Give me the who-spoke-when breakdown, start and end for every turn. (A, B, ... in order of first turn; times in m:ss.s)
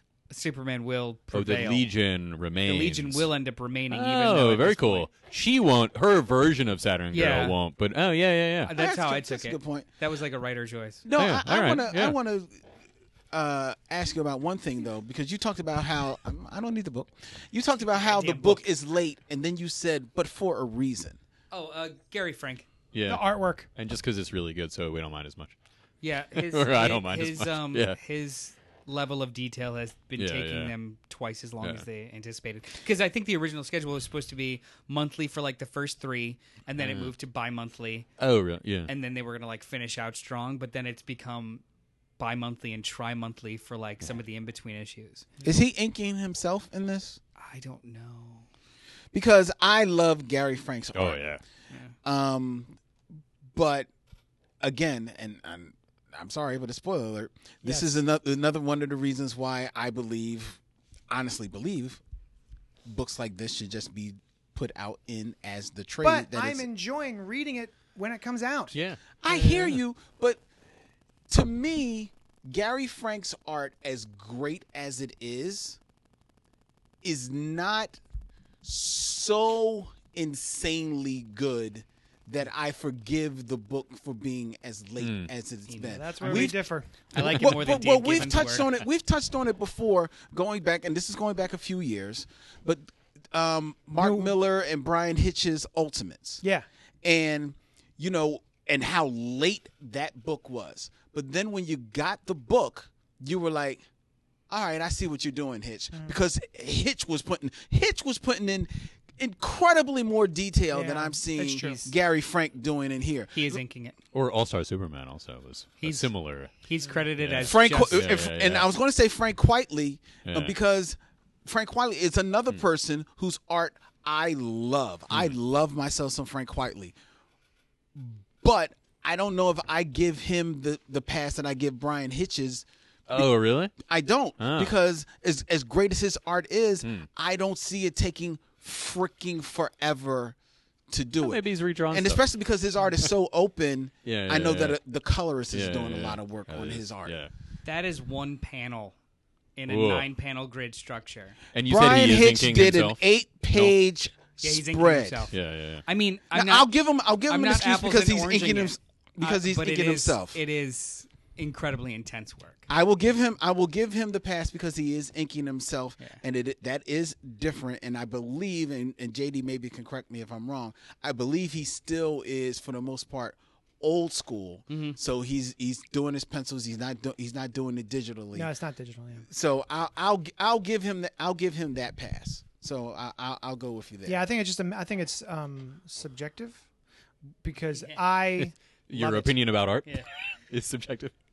0:00.3-0:01.9 A
0:01.3-0:03.3 B
0:02.6-0:05.1 A
0:03.9-0:08.7 B
0:07.1-0:07.6 A
0:08.6-0:11.0 A
0:08.7-0:09.9 C
0:11.0-0:12.6 C
0:11.2-0:12.2 B
0:13.3-0:21.2 C
0:17.9-0:18.6 A
0:21.5-0:22.7 A
0:22.9-0:25.6 B
0:23.1-0:23.7 D
0:26.0-0:38.1 A
0:26.4-0:28.0 B
0:30.2-0:30.7 B
0:36.8-0:37.1 B
0:38.2-0:38.9 B
0:38.9-0:41.6 A
0:42.2-0:45.3 A
0:45.4-0:47.2 C
0:47.4-0:48.5 A
0:49.1-0:51.4 C
0:50.9-0:51.4 B
0:52.0-0:52.8 C
0:53.5-0:53.9 C
0:54.6-1:02.0 C
0:57.6-0:58.0 D
1:02.8-1:06.6 C
1:06.0-1:08.7 D
1:08.7-1:09.8 B
1:09.2-1:10.4 C
1:11.3-1:15.8 C
1:17.0-1:18.0 C
1:18.6-1:36.4 C
1:25.0-1:25.3 B
1:25.7-1:26.6 A
1:25.8-1:26.9 D
1:27.1-1:28.7 A
1:34.0-1:34.3 D
1:37.0-1:43.8 C
1:44.5-1:53.6 C
1:50.7-1:51.8 D
1:51.6-1:51.9 A
1:53.3-1:54.0 A
1:54.1-1:56.5 B
1:55.8-1:58.2 A
1:57.2-1:58.7 B
1:57.4-2:06.9 C
2:00.2-2:00.6 B
2:07.9-2:20.4 C
2:13.1-2:13.7 B
2:14.4-2:14.7 B
2:20.9-2:27.2 C
2:21.2-2:22.2 B
2:24.0-2:24.8 B
2:25.5-2:27.3 B
2:27.6-2:29.0 A
2:29.6-2:31.4 A
2:29.7-2:30.0 B
2:31.5-2:33.7 B
2:31.6-2:35.3 C
2:34.4-2:35.3 A
2:35.3-2:35.8 B
2:35.8-2:36.7 A
2:36.3-2:40.4 C
2:37.3-2:42.6 A
2:42.7-2:58.5 C
2:54.7-2:55.0 A
2:58.3-2:59.2 D
2:59.3-3:04.2 C
3:04.0-3:06.6 D
3:07.4-3:09.3 D
3:07.7-3:08.0 A
3:08.4-3:11.1 B